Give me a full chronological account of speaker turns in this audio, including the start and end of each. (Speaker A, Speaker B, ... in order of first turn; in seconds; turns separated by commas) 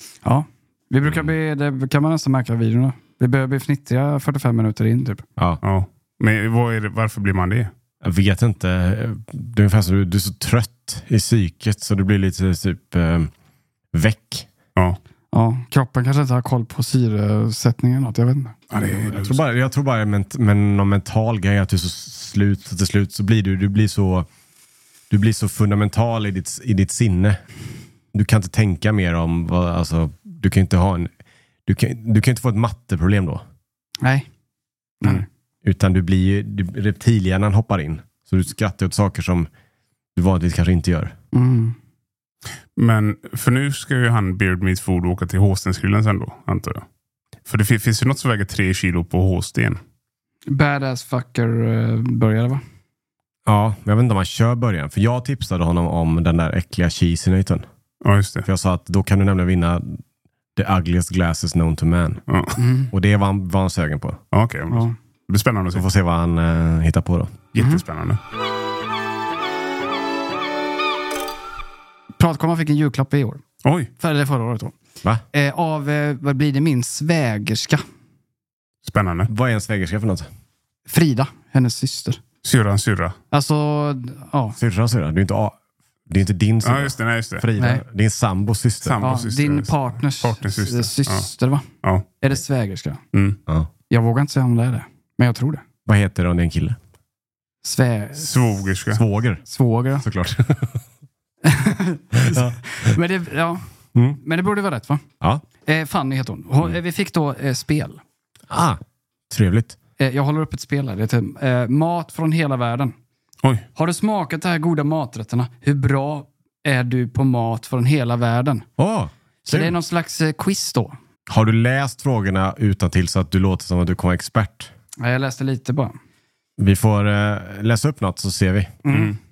Speaker A: 0.2-5.2, Speaker B: 1.1-1.3, Speaker B: 5.4-5.6, Speaker C: 5.6-7.7, Speaker B: 8.0-13.3, Speaker B: 13.9-14.5, Speaker A: 15.3-18.9, Speaker C: 18.7-19.4, Speaker B: 19.0-24.3, Speaker B: 25.1-27.4, Speaker B: 28.1-31.1, Speaker B: 31.7-33.5, Speaker A: 34.0-34.3, Speaker B: 35.1-39.5, Speaker B: 40.1-41.2, Speaker A: 41.3-41.8, Speaker C: 42.8-46.8, Speaker C: 47.5-49.8, Speaker A: 50.5-52.6, Speaker B: 53.5-57.6, Speaker C: 58.0-58.5, Speaker B: 58.5-60.0, Speaker B: 60.6-62.2, Speaker C: 62.3-62.6, Speaker A: 62.6-62.9, Speaker B: 62.9-64.2, Speaker C: 64.3-65.8, Speaker B: 65.7-67.4, Speaker C: 67.5-68.2, Speaker A: 67.6-67.8, Speaker A: 72.2-73.4, Speaker C: 73.6-73.9, Speaker A: 74.0-74.8, Speaker A: 75.3-77.8, Speaker C: 78.8-79.3, Speaker B: 79.3-80.3, Speaker A: 80.9-82.2, Speaker C: 82.5-83.2, Speaker A: 83.3-84.6, Speaker B: 84.6-85.6, Speaker B: 86.1-89.3, Speaker C: 86.6-87.5, Speaker A: 87.6-87.8, Speaker C: 88.8-91.3, Speaker A: 89.0-91.7, Speaker A: 92.2-93.0, Speaker A: 93.9-95.6, Speaker B: 95.8-96.8, Speaker A: 97.6-98.5, Speaker C: 98.2-99.0, Speaker B: 98.9-99.4, Speaker A: 99.5-100.0, Speaker B: 100.0-100.8, Speaker A: 101.5-103.7, Speaker B: 102.2-103.0, Speaker A: 104.2-105.0, Speaker A: 105.7-108.0, Speaker B: 108.5-109.8, Speaker A: 110.0-113.0, Speaker A: 113.8-118.7, Speaker B: 118.8-119.8, Speaker A: 119.5-121.0, Speaker B: 121.3-124.7, Speaker A: 125.0-126.0, Speaker B: 126.6-128.8, Speaker A: 128.8-129.2, Speaker C: 128.9-129.2